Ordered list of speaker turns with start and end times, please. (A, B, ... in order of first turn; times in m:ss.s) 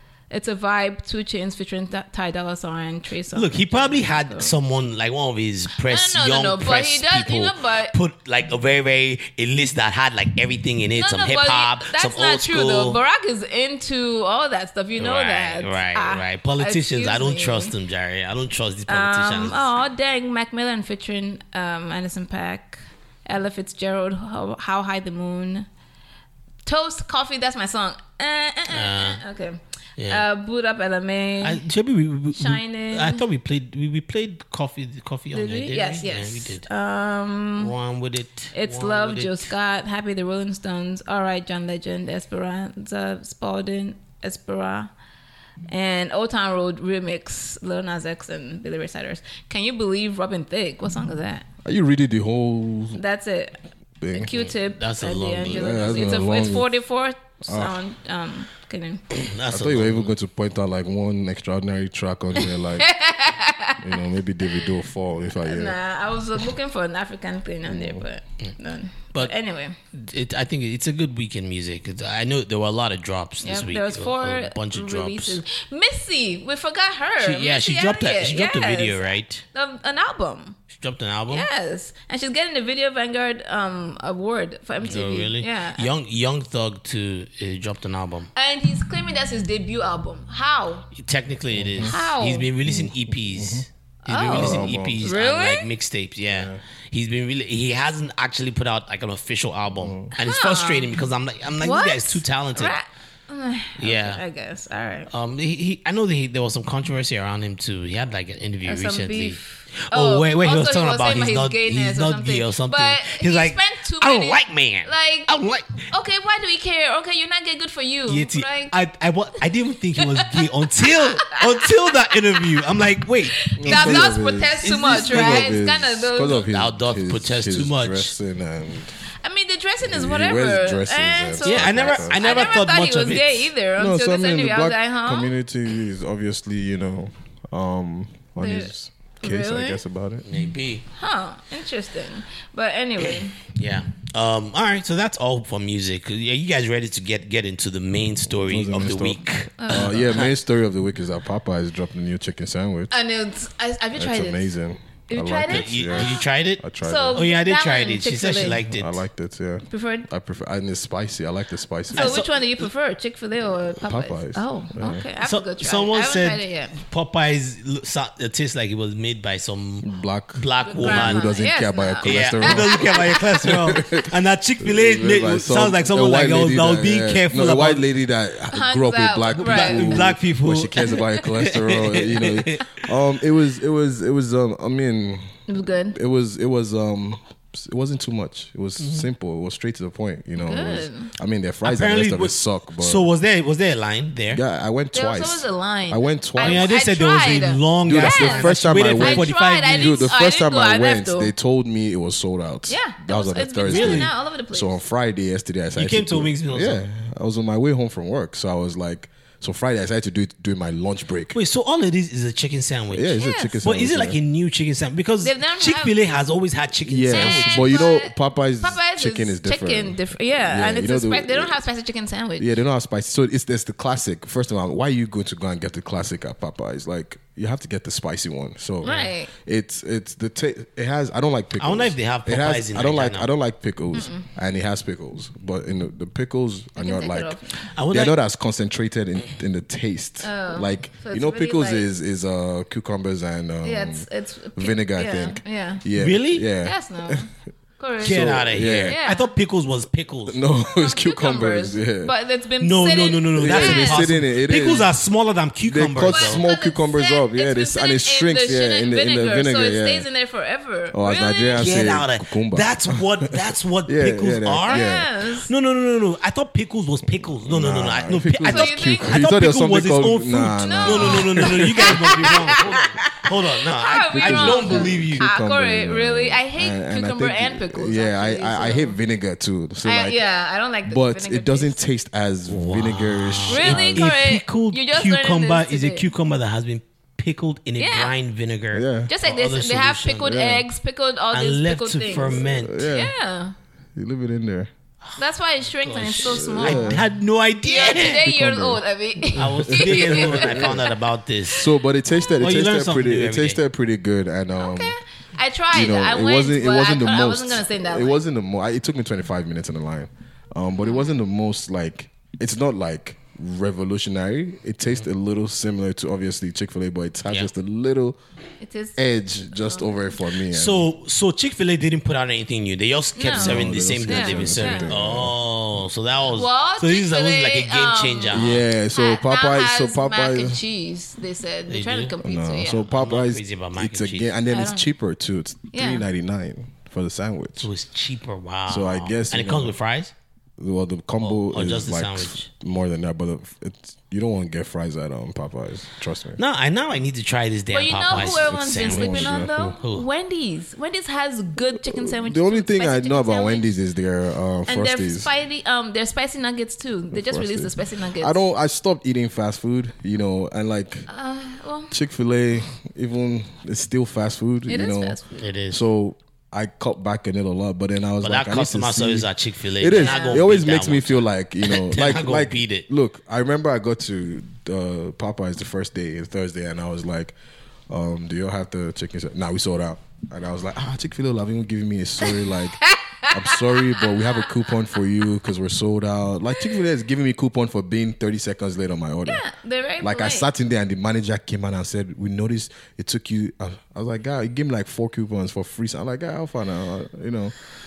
0:00.3-0:04.5 A
0:03.3-0:13.0 B
0:05.8-0:08.0 A
0:11.0-0:17.7 A
0:15.0-0:19.7 B
0:18.9-0:25.7 A
0:26.6-0:31.6 A
0:28.7-0:29.2 B
0:30.0-0:30.2 B
0:31.4-0:36.7 B
0:32.4-0:33.2 A
0:35.3-0:37.7 A
0:37.6-0:39.5 B
0:38.5-0:44.9 A
0:45.7-0:51.4 A
0:51.6-0:53.0 C
0:53.0-0:53.6 A
0:54.0-0:54.3 C
0:54.1-0:59.0 A
0:54.3-0:56.2 B
0:55.4-0:56.7 C
0:57.5-0:57.8 C
0:59.2-1:00.1 B
0:59.5-1:02.9 C
1:02.4-1:04.7 A
1:03.8-1:05.8 C
1:05.4-1:09.8 A
1:07.7-1:08.0 C
1:09.9-1:15.4 B
1:13.4-1:20.6 A
1:17.2-1:19.4 B
1:20.7-1:21.5 B
1:21.3-1:25.9 A
1:24.8-1:28.3 B
1:28.4-1:30.9 A
1:31.0-1:42.8 B
1:31.5-1:32.0 C
1:31.8-1:32.5 A
1:32.6-1:33.7 C
1:34.1-1:35.7 A
1:34.3-1:35.0 C
1:36.3-1:36.6 C
1:39.8-1:40.1 C
1:40.2-1:40.9 A
1:41.6-1:45.1 A
1:43.8-1:44.2 B
1:45.1-1:55.8 B
1:48.6-1:55.3 A
1:55.9-1:58.8 A
1:58.1-2:04.1 B
2:00.0-2:00.5 A
2:02.1-2:02.4 A
2:03.4-2:06.5 A
2:03.6-2:09.0 C
2:04.6-2:05.5 B
2:06.5-2:08.1 B
2:09.2-2:15.3 A
2:09.8-2:12.2 C
2:11.4-2:13.5 B
2:13.8-2:20.2 C
2:18.4-2:19.8 A
2:20.2-2:20.8 B
2:20.9-2:23.4 A
2:23.6-2:30.3 B
2:28.3-2:33.0 C
2:29.6-2:29.9 A
2:32.9-2:34.5 A
2:34.0-2:37.3 C
2:35.1-2:36.2 A
2:35.5-2:39.0 B
2:36.8-2:38.6 A
2:38.5-2:42.2 C
2:39.7-2:40.1 A
2:41.9-2:42.4 B
2:41.9-2:46.8 A
2:43.8-2:45.0 C
2:45.2-2:51.3 B
2:49.8-3:05.4 C
2:50.7-2:53.2 A
2:52.0-2:57.8 B
2:58.5-3:00.1 A
2:59.4-3:02.8 B
3:05.5-3:06.0 A
3:05.9-3:13.1 C
3:08.8-3:09.1 B
3:10.4-3:11.1 A
3:11.6-3:14.4 B
3:14.3-3:16.7 C
3:14.9-3:21.3 A
3:16.4-3:20.1 B
3:17.8-3:31.4 C
3:22.7-3:24.8 A
3:23.7-3:24.1 B
3:25.8-3:26.8 B
3:31.3-3:37.8 B
3:32.9-3:34.2 C
3:33.2-3:33.6 A
3:35.2-3:36.0 A
3:36.8-3:41.6 C
3:37.1-3:42.5 A
3:42.4-3:57.4 C
3:48.8-3:49.3 A
3:51.6-3:53.3 B
3:53.9-3:54.3 A
3:56.8-3:57.7 A
3:57.7-3:58.2 B
3:57.9-4:07.3 C
4:00.2-4:01.9 A
4:03.6-4:05.8 A
4:06.0-4:06.5 B
4:06.6-4:09.3 A
4:08.0-4:09.0 C
4:08.0-4:10.4 B
4:10.3-4:12.1 C
4:10.6-4:14.1 A
4:12.6-4:16.4 B
4:13.4-4:14.9 C
4:15.6-4:20.1 C
4:16.1-4:21.7 A
4:20.9-4:25.1 C
4:21.5-4:24.9 B
4:24.7-4:25.5 A
4:25.5-4:35.2 B
4:27.4-4:32.7 C
4:28.5-4:29.2 A
4:30.6-4:33.3 A
4:33.8-4:39.0 A
4:34.1-4:40.2 C
4:39.8-4:41.8 A
4:40.9-4:44.1 C
4:42.5-4:50.4 B
4:43.5-4:46.1 A
4:47.8-4:48.1 A
4:48.7-4:49.1 C
4:49.1-4:53.6 A
4:50.2-4:50.6 C
4:51.3-4:52.8 B
4:52.1-4:53.1 C
4:54.0-4:54.7 C
4:55.2-4:57.0 A
4:55.8-4:58.3 B
4:56.2-4:57.1 C
4:57.6-5:00.9 A
4:58.1-5:00.9 C
4:59.4-5:01.7 B
5:01.5-5:05.0 C
5:02.4-5:03.6 B
5:04.6-5:08.2 A
5:05.7-5:18.2 C
5:10.8-5:11.2 A
5:18.6-5:20.2 A
5:19.0-5:20.9 C
5:20.5-5:28.6 B
5:23.2-5:24.9 A
5:23.3-5:25.4 C
5:26.3-5:32.9 A
5:28.3-5:30.6 C
5:31.7-5:32.2 B
5:32.2-5:37.7 C
5:32.9-5:34.3 B
5:34.5-5:34.9 A
5:35.7-5:36.0 A
5:37.6-5:40.1 B
5:38.7-5:39.8 C
5:40.6-5:46.4 C
5:41.2-5:42.5 B
5:46.4-5:50.1 B
5:47.7-5:53.7 A
5:48.1-5:49.8 C
5:51.8-5:55.3 C
5:54.7-5:58.4 A
5:57.1-6:01.1 C
6:01.1-6:01.9 A
6:01.9-6:05.2 C
6:04.7-6:05.4 A
6:05.4-6:05.8 B
6:05.7-6:17.4 C
6:08.2-6:12.9 B
6:09.9-6:10.4 A
6:17.9-6:29.4 C
6:22.8-6:24.4 A
6:29.3-6:30.5 A
6:30.0-6:37.6 C